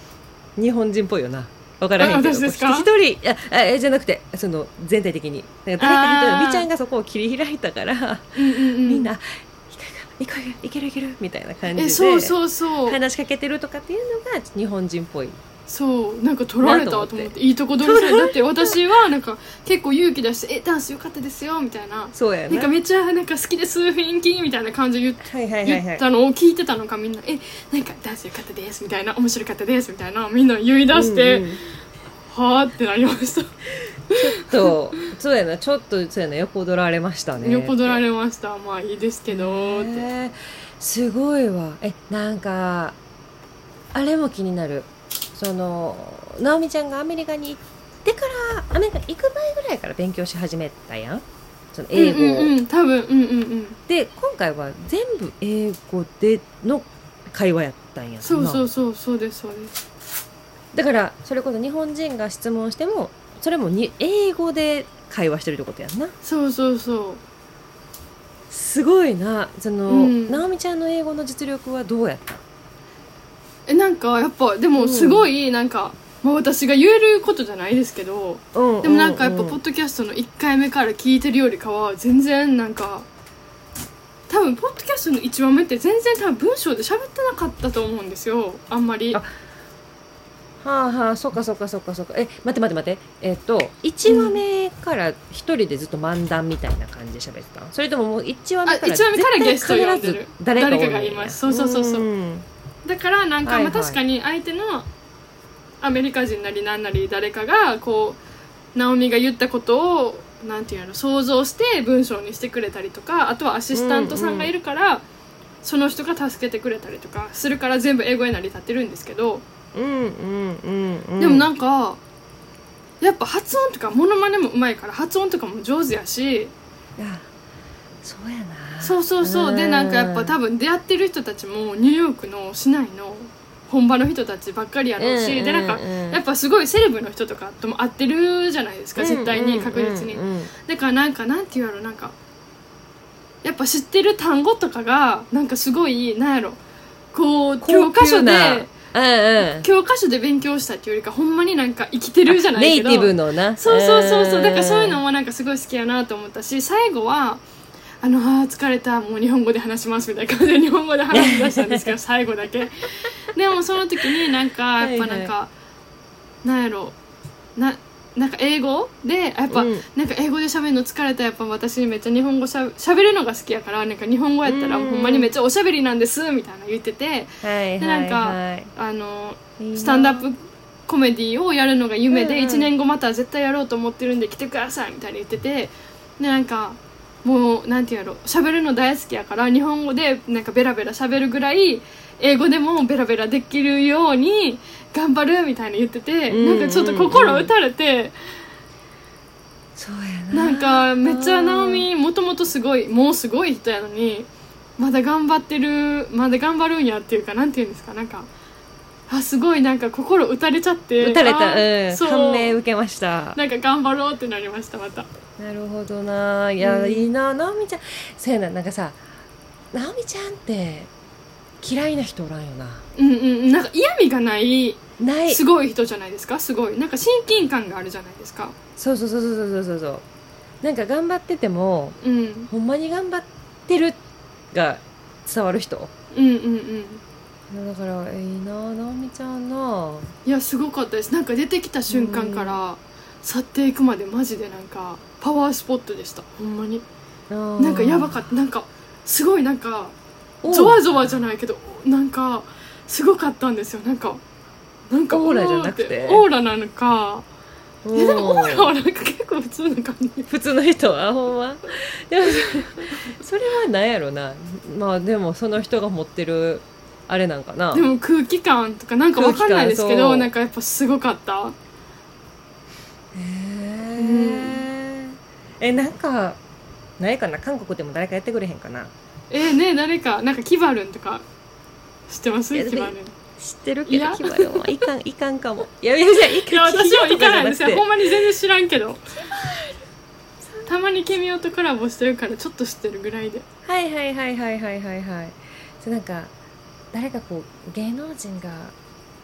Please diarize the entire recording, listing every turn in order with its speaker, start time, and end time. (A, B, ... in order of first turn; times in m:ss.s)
0:00.6-0:15.4 A
0:02.0-0:02.9 B
0:05.8-0:06.7 B
0:08.3-0:09.1 B
0:11.7-0:13.0 B
0:15.7-0:31.6 B
0:16.6-0:18.8 A
0:22.1-0:22.7 A
0:25.2-0:26.0 A
0:30.9-0:31.6 A
0:32.3-0:33.5 B
0:34.1-0:34.7 B
0:34.1-0:38.0 A
0:37.4-0:40.1 B
0:39.3-0:43.0 A
0:43.9-0:52.5 A
0:51.9-0:53.8 B
0:53.9-0:58.6 A
0:58.2-0:59.7 B
1:00.7-1:06.1 A
1:06.2-1:07.2 B
1:08.5-1:12.4 A
1:09.9-1:10.4 B
1:13.7-1:23.1 B
1:14.8-1:15.3 A
1:18.5-1:19.6 A
1:24.3-1:29.2 B
1:30.6-1:42.4 A
1:34.0-1:34.4 B
1:38.6-1:42.0 B
1:42.8-1:44.9 B
1:43.4-1:44.0 A
1:45.8-1:48.2 B
1:48.7-1:55.0 B
1:53.7-1:54.5 A
1:55.6-1:59.4 B
1:59.7-2:01.5 A
2:01.2-2:02.0 B
2:03.0-2:06.5 B
2:07.0-2:07.2 A
2:08.0-2:10.3 A
2:08.8-2:22.1 B
2:15.0-2:16.2 A
2:19.0-2:20.5 A
2:23.4-2:26.6 B
2:27.1-2:28.7 B
2:27.6-2:29.7 A
2:29.4-2:37.4 B
2:32.3-2:35.0 A
2:38.0-2:45.5 B
2:41.1-2:41.9 A
2:44.8-2:45.3 A
2:46.4-2:46.9 B
2:47.6-3:18.1 B
2:49.5-2:49.8 A
2:54.4-2:55.3 A
2:57.4-2:58.7 A
2:59.6-3:00.3 A
3:02.1-3:02.7 A
3:16.3-3:17.5 A
3:19.8-3:21.9 A
3:20.3-3:28.3 B
3:29.1-3:32.6 B
3:31.0-3:33.4 A
3:33.3-3:35.1 B
3:35.4-3:39.0 A
3:36.6-3:37.1 B
3:39.7-3:40.9 A
3:41.6-3:42.8 A
3:43.0-3:48.5 B
3:45.0-3:45.4 A
3:48.8-3:50.0 A
3:50.6-3:52.0 A
3:52.0-3:52.5 B
3:52.5-3:54.0 A
3:54.5-3:55.9 A
3:56.1-3:57.0 B
3:57.5-4:00.1 A
4:00.2-4:06.8 B
4:01.9-4:02.6 A
4:07.3-4:08.3 A
4:07.6-4:09.9 B
4:10.4-4:11.2 A
4:10.5-4:14.2 B
4:14.9-4:17.2 B
4:15.1-4:16.2 A
4:17.8-4:18.7 A
4:17.9-4:20.3 B
4:20.3-4:27.9 A
4:27.7-4:31.5 B
4:29.2-4:30.3 A
4:33.1-4:36.4 A
4:34.0-4:34.6 B
4:37.0-4:38.9 A
4:39.3-4:41.2 B
4:42.1-4:43.1 B
4:42.5-4:47.9 A
4:43.8-4:44.7 B
4:46.2-4:49.0 B
4:49.2-4:49.8 A
4:50.6-4:53.4 B
4:53.6-4:56.3 A
4:56.9-4:58.7 A